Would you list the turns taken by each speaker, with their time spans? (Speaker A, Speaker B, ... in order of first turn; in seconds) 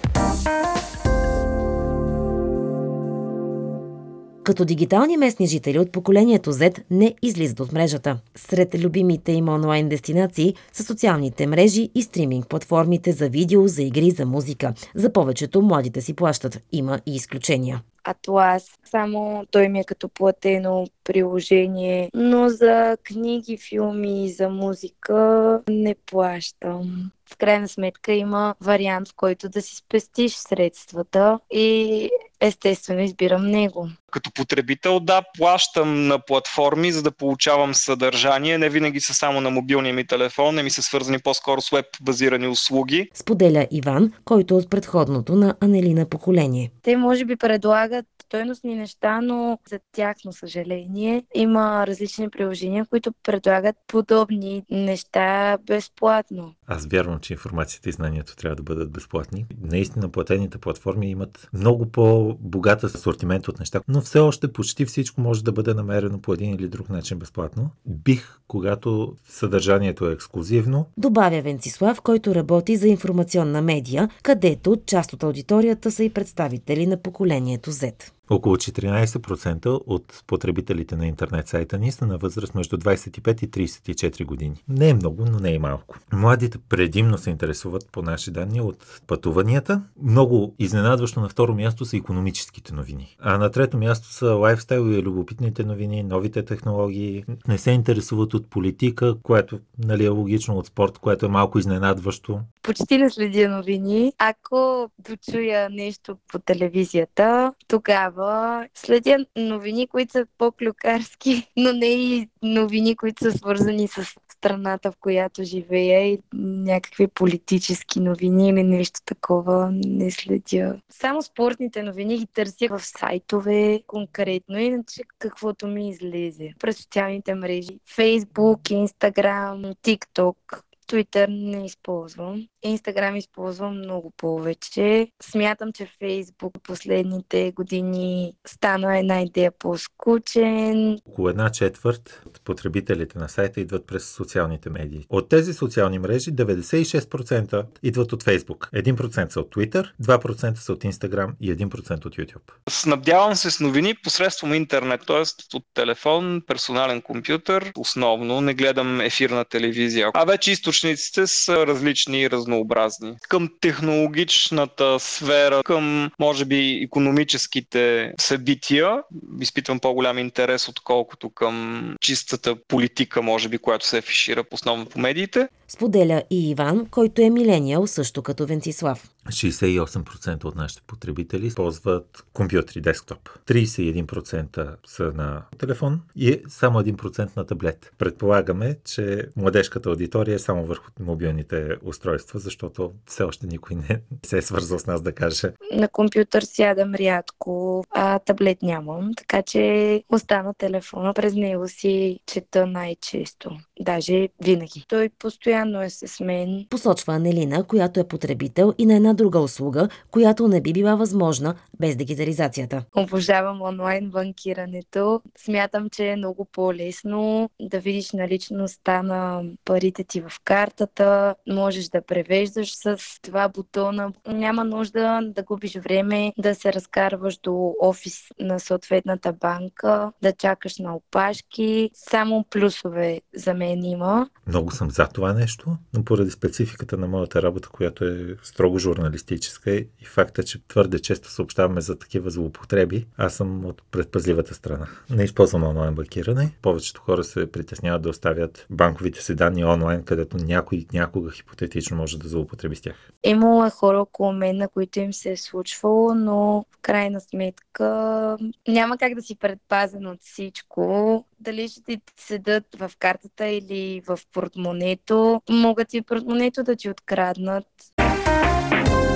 Speaker A: 4.4-17.8, 43.1-46.7, 71.0-78.1, 175.7-179.0, 206.7-212.8
Speaker B: 18.0-33.9, 46.8-56.5, 102.6-141.0, 195.7-206.7, 212.9-234.3, 253.2-267.8
Speaker C: 34.1-43.1, 152.7-175.5
Speaker D: 56.7-70.9, 78.3-102.5, 141.1-152.5, 179.3-195.5, 234.4-253.0